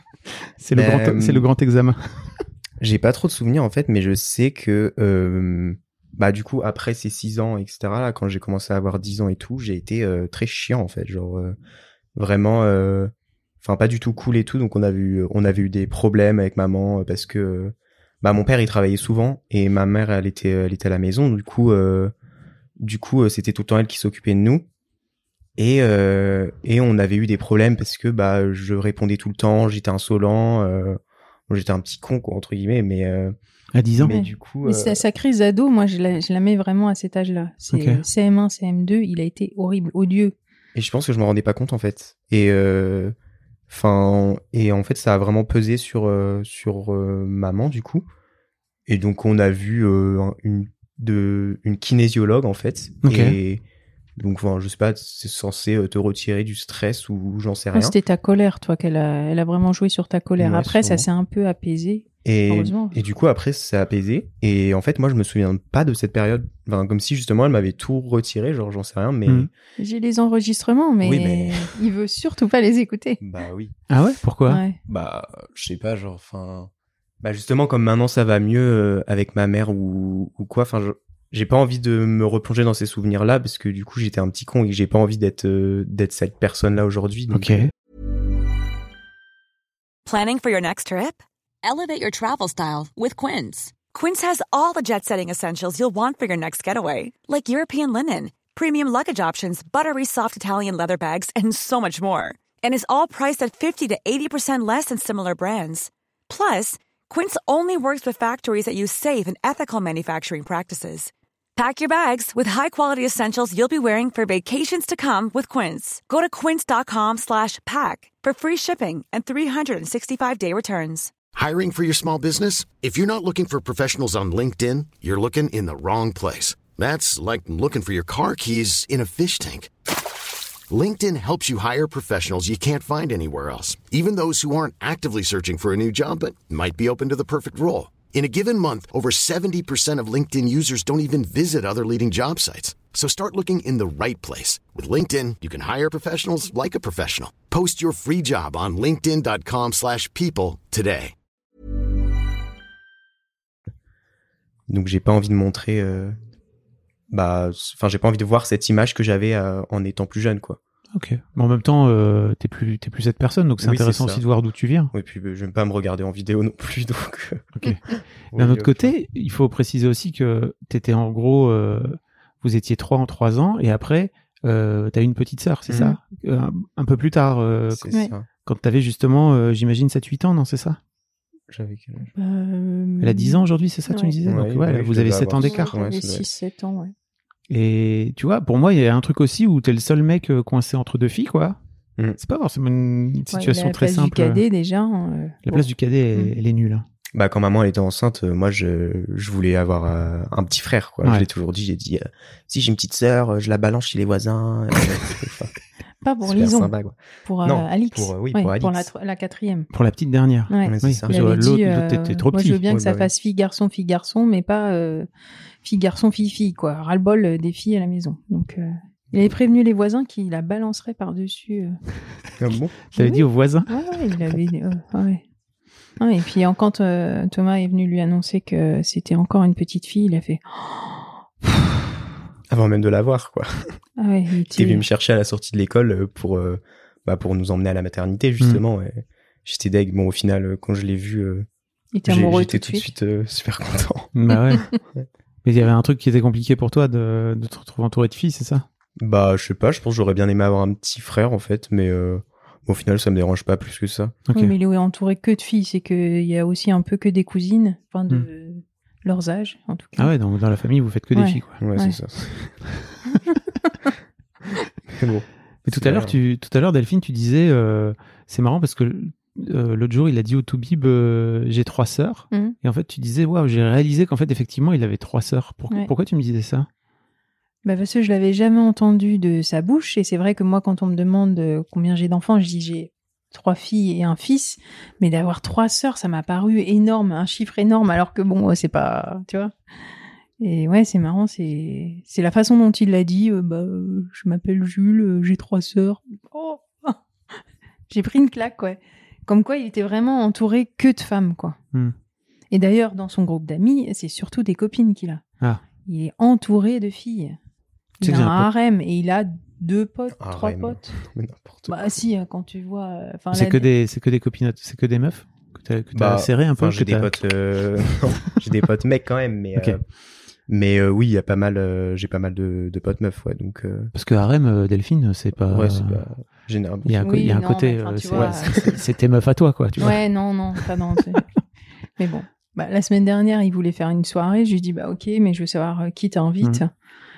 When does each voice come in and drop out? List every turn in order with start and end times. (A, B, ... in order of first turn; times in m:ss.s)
0:00.6-0:02.0 A
0:00.7-0:01.5 B
0:02.8-0:11.6 B
0:12.2-0:22.1 B
0:22.8-0:24.6 B
0:25.6-0:33.4 B
0:33.8-0:34.1 A
0:34.0-0:35.0 B
0:34.1-0:40.4 C
0:37.7-0:38.0 A
0:40.8-0:43.2 B
0:43.7-0:48.1 B
0:48.9-0:53.6 B
0:53.0-0:53.4 A
0:54.2-0:58.0 B
0:57.7-1:03.0 C
1:00.4-1:01.1 B
1:02.2-1:09.5 B
1:09.8-1:13.2 C
1:11.0-1:11.7 B
1:13.2-1:13.8 B
1:13.9-1:14.6 A
1:14.5-1:14.8 C
1:14.9-1:16.7 B
1:17.2-1:27.7 B
1:27.3-1:27.7 A
1:30.0-2:01.1 D
2:01.4-2:09.7 E
2:10.7-2:31.1 E
2:34.7-2:36.2 B
2:37.1-2:40.6 B
2:41.0-2:44.9 A
2:43.6-2:44.2 B
2:44.9-2:47.5 B
2:48.3-2:48.9 B
2:48.4-2:57.9 A
2:55.7-2:56.0 B
2:57.7-2:58.3 B
2:58.4-3:00.8 A
3:01.5-3:02.1 B
3:02.1-3:04.1 C
3:03.0-3:05.7 A
3:04.2-3:06.3 B
3:05.4-3:06.9 C
3:07.5-3:11.6 A
3:12.2-3:14.4 A
3:13.3-3:16.3 C
3:15.5-3:16.8 A
3:17.2-3:25.5 B
3:26.0-3:29.7 C
3:26.2-3:28.9 B
3:29.7-3:32.6 A
3:30.5-3:35.1 C
3:30.7-3:31.2 B
3:32.6-3:33.1 B
3:35.6-3:41.8 C
3:42.4-3:42.8 B
3:42.9-3:43.7 A
3:43.0-3:45.2 C
3:46.0-3:51.5 C
3:52.5-3:53.8 B
3:54.0-3:54.8 C
3:54.5-4:01.5 B
4:01.9-4:02.8 C
4:02.0-4:04.1 B
4:04.2-4:04.7 A
4:05.4-4:08.6 A
4:09.0-4:14.2 B
4:14.3-4:14.5 A
4:14.3-4:20.1 C
4:20.0-4:21.6 A
4:21.1-4:22.0 C
4:21.6-4:22.5 B
4:24.9-4:26.2 B
4:25.7-4:36.7 A
4:37.6-4:49.5 C
4:50.4-4:57.0 C
4:57.9-5:01.6 C
5:02.5-5:05.2 C
5:05.9-5:07.4 C
5:08.0-5:10.9 C
5:08.0-5:08.5 A
5:10.2-5:11.8 B
5:11.7-5:13.7 C
5:13.3-5:17.1 A
5:15.9-5:19.8 B
5:20.5-5:23.9 B
5:24.0-5:26.0 A
5:25.5-5:27.1 B
5:26.9-5:30.0 A
5:27.0-5:28.8 C
5:28.1-5:28.7 B
5:29.8-5:31.3 C
5:32.0-5:36.7 C